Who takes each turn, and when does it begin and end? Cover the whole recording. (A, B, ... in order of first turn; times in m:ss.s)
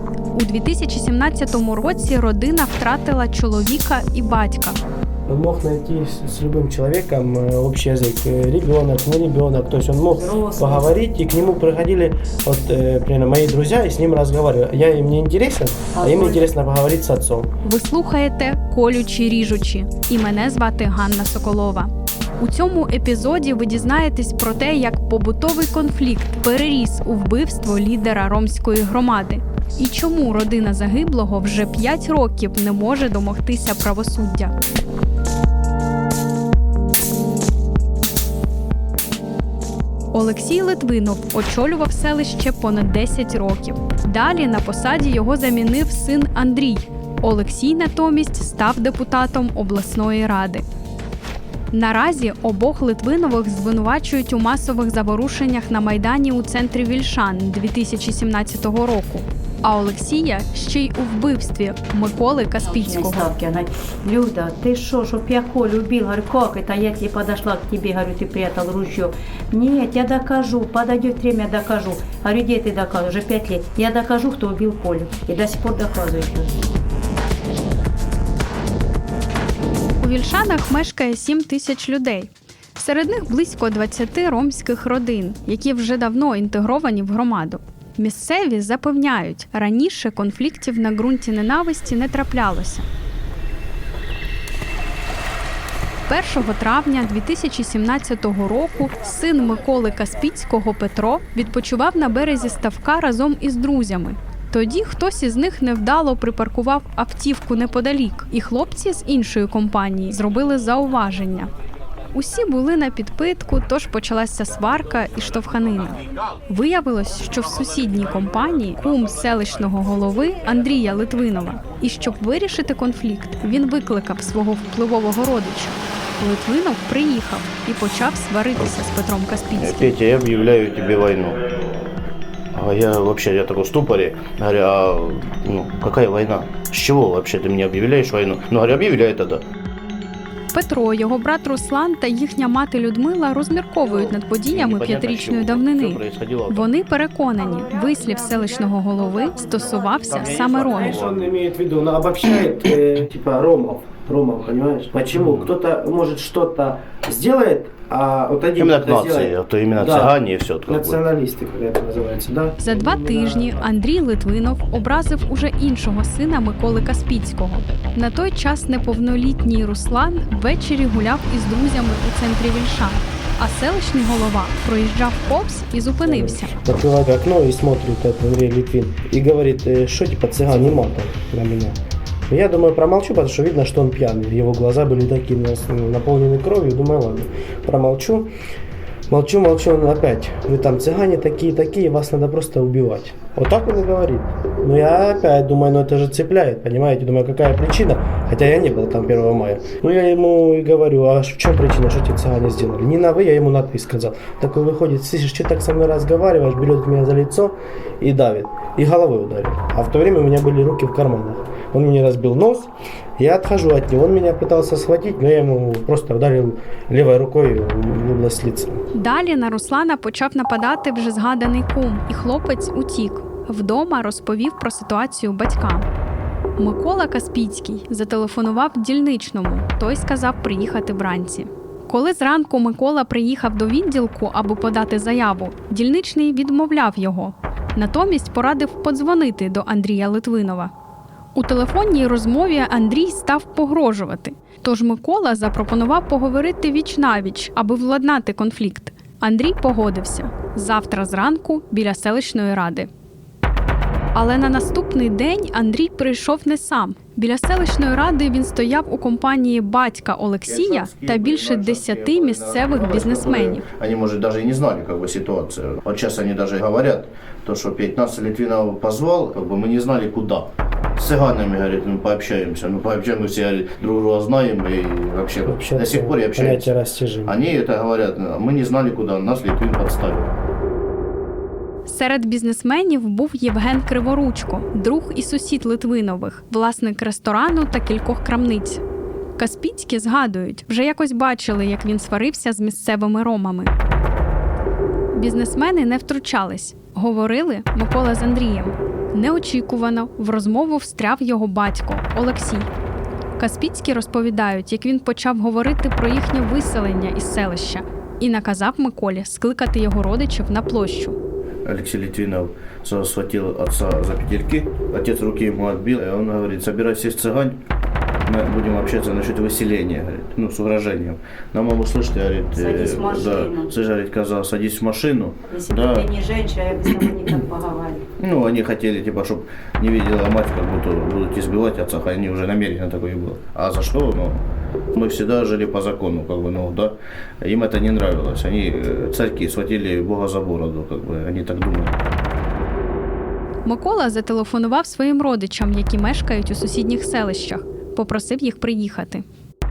0:00.3-0:04.8 A
0:05.3-0:17.5 B
0:10.1-0:10.9 C
0:15.9-0:16.4 C
0:17.6-0:34.5 A
0:40.1-0:50.6 A
0:51.7-1:03.2 A
1:02.6-1:16.5 C
1:20.0-1:32.8 A
1:36.1-1:51.5 A
1:52.1-2:09.9 A
2:09.6-2:11.5 D
2:12.5-2:19.4 D
2:20.5-2:31.0 A
2:23.8-2:26.7 D
2:27.4-2:30.9 C
2:29.8-2:31.2 D
2:30.7-2:43.7 B
2:35.1-2:35.5 D
2:38.6-2:41.0 D
2:42.6-2:56.5 A
2:56.0-3:08.3 B
3:09.1-3:38.8 B
3:38.9-3:45.9 A
3:46.6-4:00.7 A
4:01.3-4:12.9 A
4:14.1-4:23.6 A
4:20.5-4:36.7 D
4:35.4-4:37.4 B
4:37.2-4:40.3 D
4:41.8-4:48.8 A
4:49.4-4:53.7 A
4:55.1-5:02.7 A
5:03.4-5:11.2 A
5:11.6-5:17.6 D
5:18.2-5:26.1 D
5:22.5-5:23.7 C
5:25.5-5:28.0 C
5:28.2-5:34.4 D
5:34.9-5:42.0 D
5:43.6-5:49.2 A